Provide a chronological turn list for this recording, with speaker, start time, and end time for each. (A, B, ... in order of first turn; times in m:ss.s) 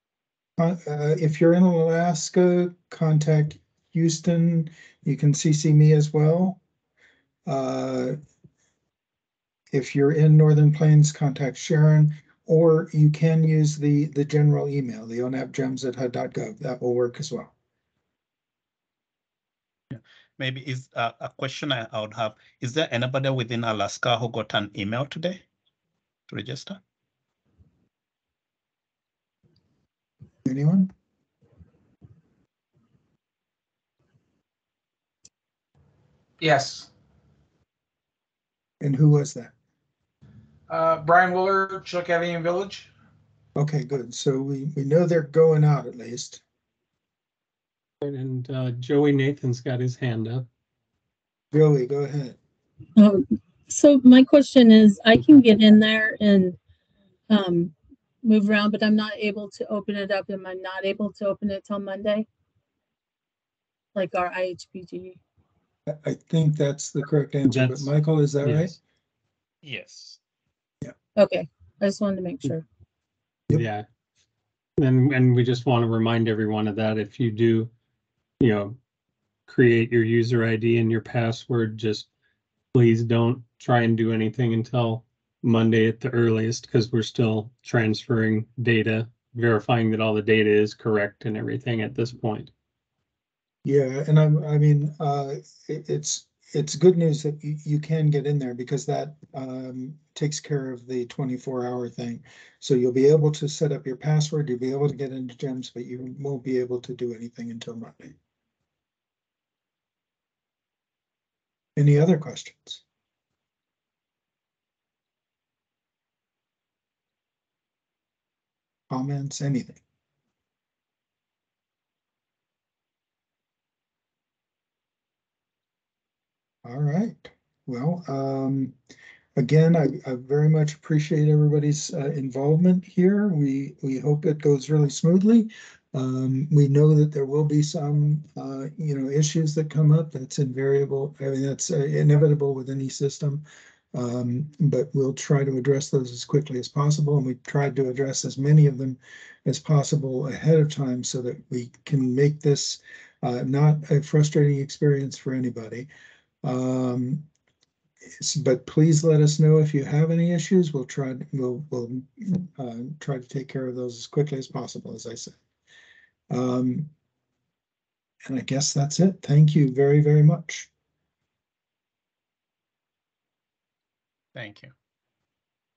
0:00.6-0:06.6 A
0:07.5-0:08.2 A
0:09.7-0:17.5 A
0:19.9-0:25.4 B
0:26.3-0:26.8 B
0:30.5-0:30.9 A
0:36.4-0:36.9 C
0:38.8-0:39.5 A
0:40.7-0:42.9 C
0:43.6-0:46.4 A
0:48.0-0:50.5 D
0:51.5-0:52.4 A
0:53.0-0:56.6 E
0:57.3-0:57.7 E
0:58.2-1:02.3 E
1:04.0-1:05.2 E
1:05.9-1:08.8 A
1:07.5-1:07.9 D
1:08.4-1:08.8 D
1:09.6-1:10.2 B
1:11.2-1:12.6 E
1:13.5-1:13.8 D
1:14.8-1:17.7 D
1:18.4-1:18.8 D
1:19.5-1:22.1 D
1:22.7-1:32.5 D
1:33.6-1:48.2 A
1:51.8-1:52.8 A
1:58.9-1:59.8 A
2:06.6-2:08.8 A
2:09.4-2:35.9 A
2:36.4-2:37.3 A
2:38.2-2:45.4 A
2:46.3-2:46.9 A
2:48.3-2:50.7 A
2:54.4-2:54.7 B